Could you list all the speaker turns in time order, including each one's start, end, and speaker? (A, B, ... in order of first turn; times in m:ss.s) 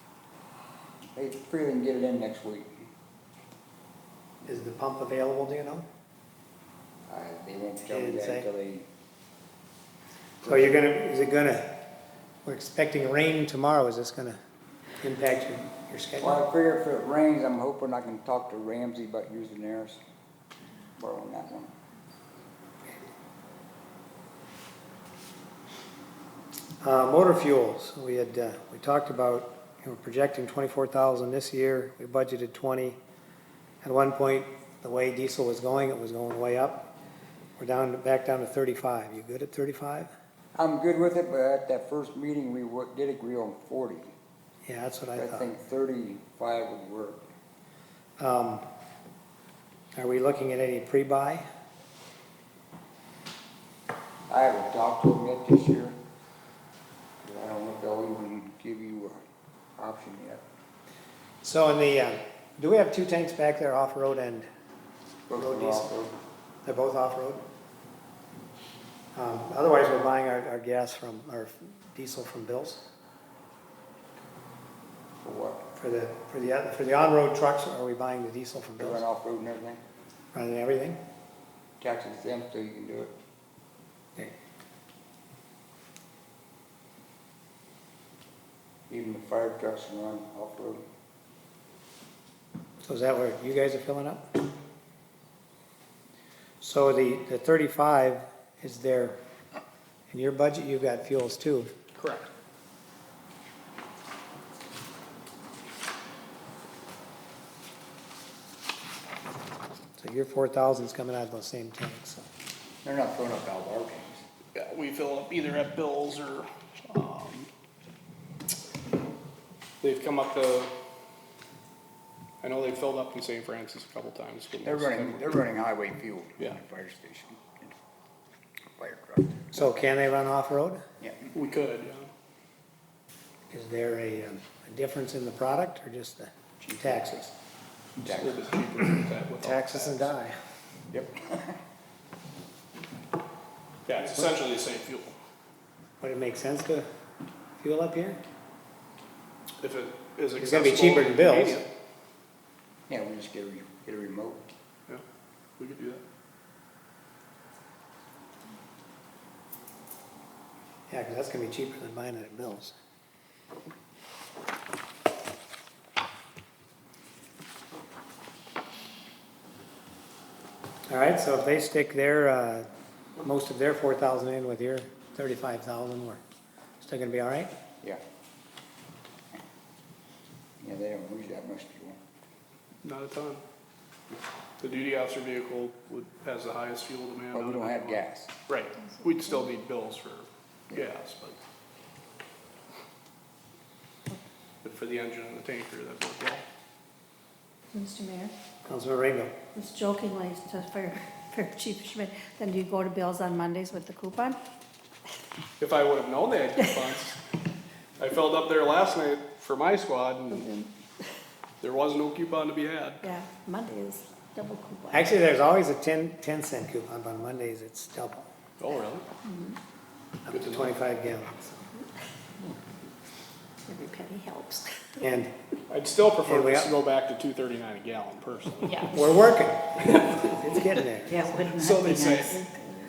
0:01.2-0:02.9 A
0:04.4-0:05.9 B
0:07.1-0:08.9 A
0:07.8-0:08.4 B
0:10.4-0:10.7 A
0:10.4-0:11.8 B
0:12.4-0:14.4 B
0:15.0-0:16.4 B
0:16.2-0:20.0 A
0:21.0-0:21.7 A
0:26.8-0:33.0 B
0:33.8-0:36.8 B
0:37.6-0:40.1 B
0:40.6-0:44.1 A
0:44.6-0:45.4 B
0:45.2-0:47.3 A
0:48.2-0:48.6 B
0:49.9-0:51.4 B
0:54.3-0:56.0 A
0:57.2-0:59.2 A
0:59.8-1:00.4 A
1:01.4-1:04.5 B
1:05.3-1:06.2 A
1:05.4-1:05.9 B
1:06.6-1:07.4 B
1:09.1-1:12.8 B
1:15.2-1:15.6 A
1:15.7-1:19.0 B
1:18.8-1:19.8 A
1:20.3-1:21.0 B
1:21.8-1:23.1 A
1:28.9-1:30.8 A
1:32.8-1:34.4 B
1:36.6-1:39.2 B
1:40.1-1:41.7 B
1:42.0-1:42.3 C
1:50.0-1:52.2 B
1:52.8-1:54.2 A
1:54.6-1:57.5 C
1:59.8-2:00.7 C
2:02.4-2:05.3 C
2:04.6-2:07.7 A
2:08.8-2:09.4 A
2:09.5-2:10.8 B
2:11.0-2:11.3 A
2:11.3-2:12.1 C
2:13.5-2:17.3 B
2:16.6-2:17.2 A
2:18.0-2:18.6 A
2:18.0-2:20.1 C
2:19.4-2:20.3 B
2:20.9-2:21.6 A
2:23.8-2:25.2 C
2:26.0-2:26.9 B
2:27.6-2:28.2 B
2:29.6-2:31.7 C
2:30.4-2:31.6 B
2:32.9-2:34.5 A
2:35.6-2:36.0 C
2:40.9-2:42.7 B
2:50.9-2:52.7 B
2:53.2-2:56.2 B
2:56.8-2:57.5 B
3:00.6-3:02.0 A
3:02.8-3:03.4 C
3:04.6-3:11.4 C
3:07.3-3:08.3 A
3:09.0-3:09.5 D
3:14.6-3:16.4 C
3:17.7-3:18.3 D
3:18.6-3:19.3 B
3:19.5-3:24.4 D
3:25.6-3:27.2 C
3:28.0-3:30.5 C
3:30.3-3:30.7 D
3:31.6-3:33.0 C
3:33.0-3:35.1 D
3:34.9-3:38.3 B
3:38.6-3:39.0 C
3:39.2-3:39.6 D
3:40.2-3:41.6 B
3:40.3-3:40.7 C
3:43.7-3:45.0 D
3:45.0-3:45.3 B
3:45.7-3:48.9 C
3:46.2-3:46.7 B
3:48.9-3:51.2 B
3:49.9-3:50.3 C
3:51.0-3:52.7 D
3:51.4-3:52.4 C